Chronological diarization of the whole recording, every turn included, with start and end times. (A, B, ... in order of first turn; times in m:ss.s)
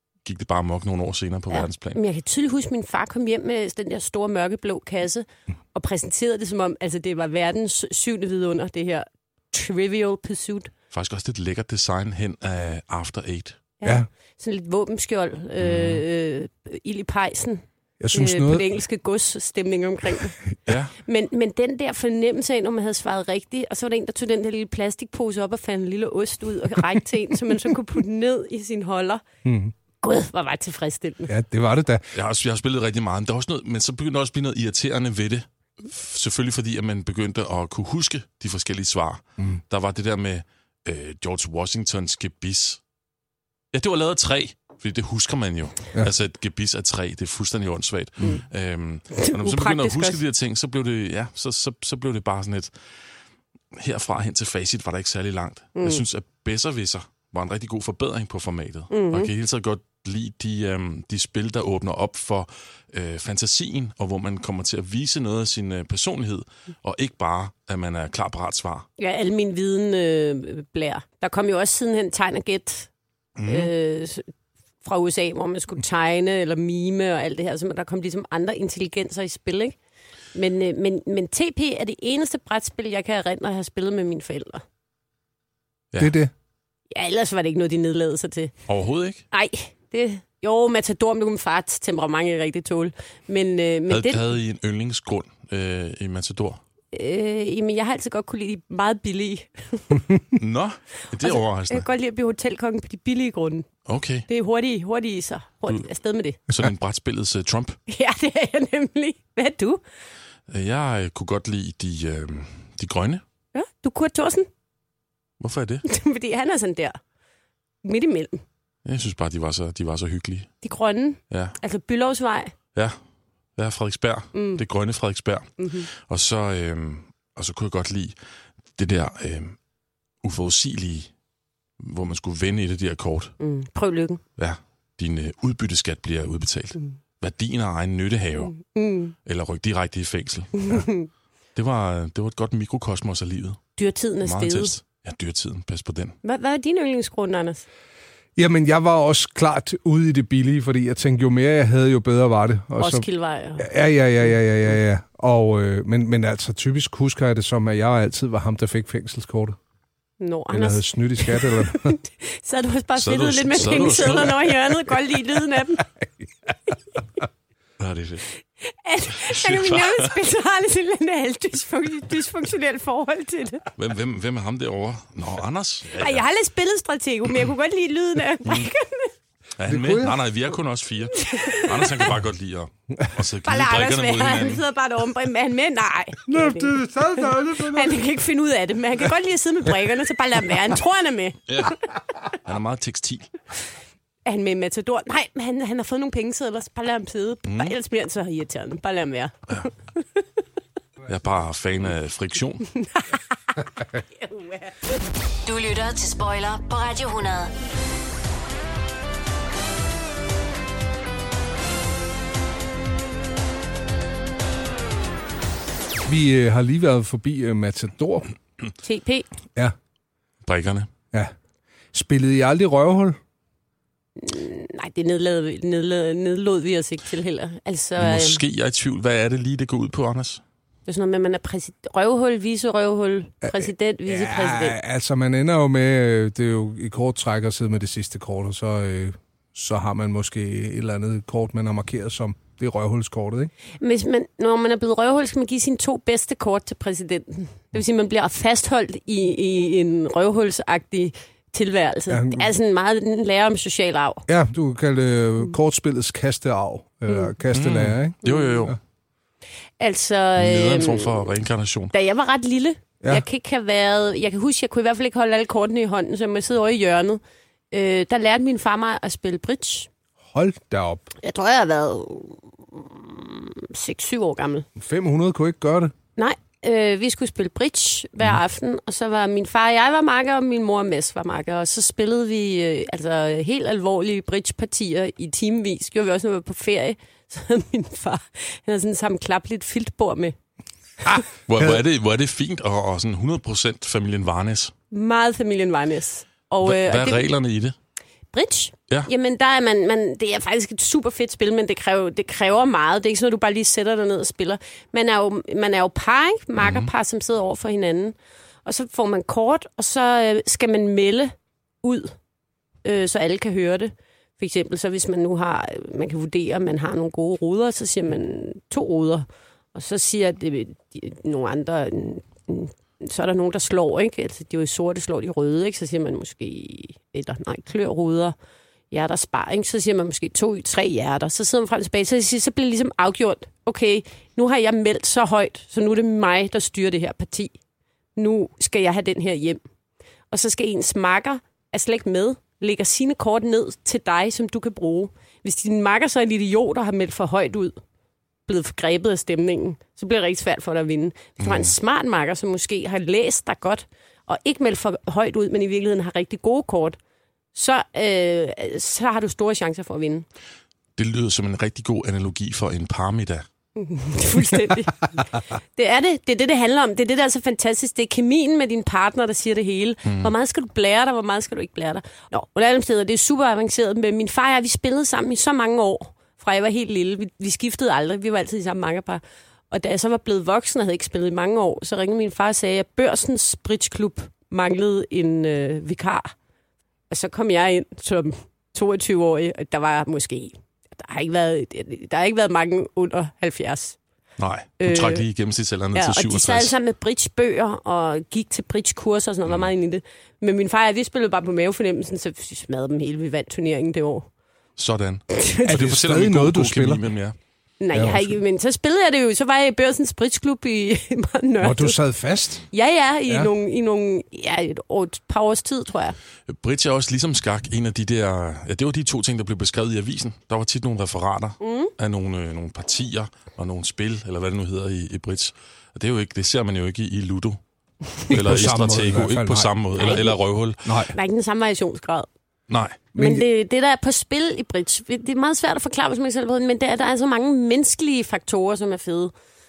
0:00.2-0:02.0 A
0:01.5-0:10.7 B
0:10.9-0:13.6 A
0:13.8-0:20.4 B
0:15.6-0:16.0 A
0:18.0-0:18.6 C
0:20.7-0:20.9 A
0:21.0-0:29.2 B
0:29.4-0:29.7 C
0:30.0-0:31.3 B
0:31.3-0:32.0 C
0:32.1-0:42.8 A
0:43.7-0:52.7 A
0:49.1-0:50.2 B
0:53.7-1:08.9 A
0:55.8-0:56.0 B
0:58.9-0:59.3 B
1:09.0-1:12.9 B
1:13.4-1:13.7 A
1:13.5-1:14.3 B
1:14.8-1:19.8 B
1:20.3-1:24.6 B
1:26.0-1:26.3 C
1:26.9-1:28.5 B
1:28.7-1:29.2 A
1:29.3-1:34.2 B
1:33.9-1:36.6 A
1:36.9-1:40.1 B
1:40.4-1:41.9 A
1:41.2-1:43.7 B
1:43.9-1:44.3 A
1:44.3-1:46.4 B
1:46.5-1:47.8 A
1:47.9-1:49.8 B
1:50.5-1:53.2 A
1:53.5-1:54.5 B
1:55.4-1:55.8 A
1:55.9-1:57.0 B
1:57.8-1:58.4 B
1:58.8-2:00.5 A
2:00.6-2:02.5 B
2:01.3-2:01.6 A
2:03.6-2:08.2 A
2:04.3-2:04.6 B
2:05.6-2:05.9 B
2:08.8-2:09.6 A
2:10.2-2:11.1 A
2:11.8-2:13.3 A
2:13.4-2:14.2 B
2:14.4-2:18.6 A
2:18.4-2:19.1 B
2:19.2-2:20.8 A
2:20.6-2:21.1 B
2:21.6-2:23.6 A
2:23.8-2:24.8 B
2:24.2-2:26.2 A
2:26.2-2:27.7 B
2:28.4-2:33.0 C
2:32.8-2:33.7 B
2:33.6-2:39.6 C
2:40.2-2:45.9 B
2:40.5-2:42.0 C
2:43.0-2:44.8 A
2:46.0-2:46.5 C
2:47.8-2:48.2 A
2:48.6-2:53.6 B
2:49.2-2:50.1 A
2:53.8-2:56.2 A
2:56.0-2:59.1 B
2:59.6-3:04.6 A
2:59.7-3:00.2 C
3:01.2-3:02.0 B
3:03.4-3:11.7 B
3:06.3-3:08.0 C
3:11.5-3:11.8 A
3:12.3-3:13.4 A
3:14.2-3:20.2 B
3:17.5-3:17.7 A
3:21.1-3:22.7 A
3:22.8-3:24.8 B
3:25.4-3:27.5 D
3:36.0-3:38.3 C
3:38.8-3:39.3 B
3:40.4-3:40.9 A
3:41.9-3:43.2 C
3:44.2-3:48.4 B
3:48.0-3:50.4 A
3:50.9-3:54.8 B
3:53.4-4:03.5 C
4:03.8-4:14.2 B
4:12.1-4:12.5 C
4:14.3-4:18.8 C
4:17.5-4:18.8 A
4:18.3-4:18.5 B
4:19.8-4:21.3 B
4:20.4-4:21.9 A
4:21.9-4:27.2 B
4:27.7-4:29.9 B
4:30.3-4:31.1 C
4:31.2-4:34.7 B
4:34.8-4:35.9 C
4:36.2-4:50.4 B
4:51.5-4:54.7 A
4:54.9-4:57.3 B
4:56.6-4:57.8 A
4:58.3-5:12.1 B
5:06.6-5:06.9 A
5:12.8-5:28.4 B
5:28.9-5:37.5 B
5:38.2-5:39.6 B
5:40.3-5:47.8 B
5:48.5-5:57.0 B
5:51.4-5:51.7 A
5:57.6-6:00.2 B
6:01.0-6:03.4 A
6:03.8-6:26.3 B
6:10.0-6:10.3 A
6:27.1-6:34.0 B
6:34.4-6:36.8 A
6:34.8-6:35.2 B
6:36.0-6:44.3 B
6:44.8-6:47.4 A
6:45.3-6:45.8 B
6:45.7-6:47.0 C
6:47.8-6:52.0 B
6:47.9-6:48.4 C
6:51.6-6:52.6 C
6:52.7-6:56.2 B
6:53.3-6:53.5 C
6:56.5-7:07.6 A
7:01.6-7:01.9 B
7:08.2-7:11.0 A
7:08.3-7:09.8 C
7:10.0-7:10.4 B
7:10.8-7:11.1 C
7:11.1-7:12.3 B
7:12.7-7:13.0 A
7:13.1-7:13.4 C
7:13.2-7:19.3 B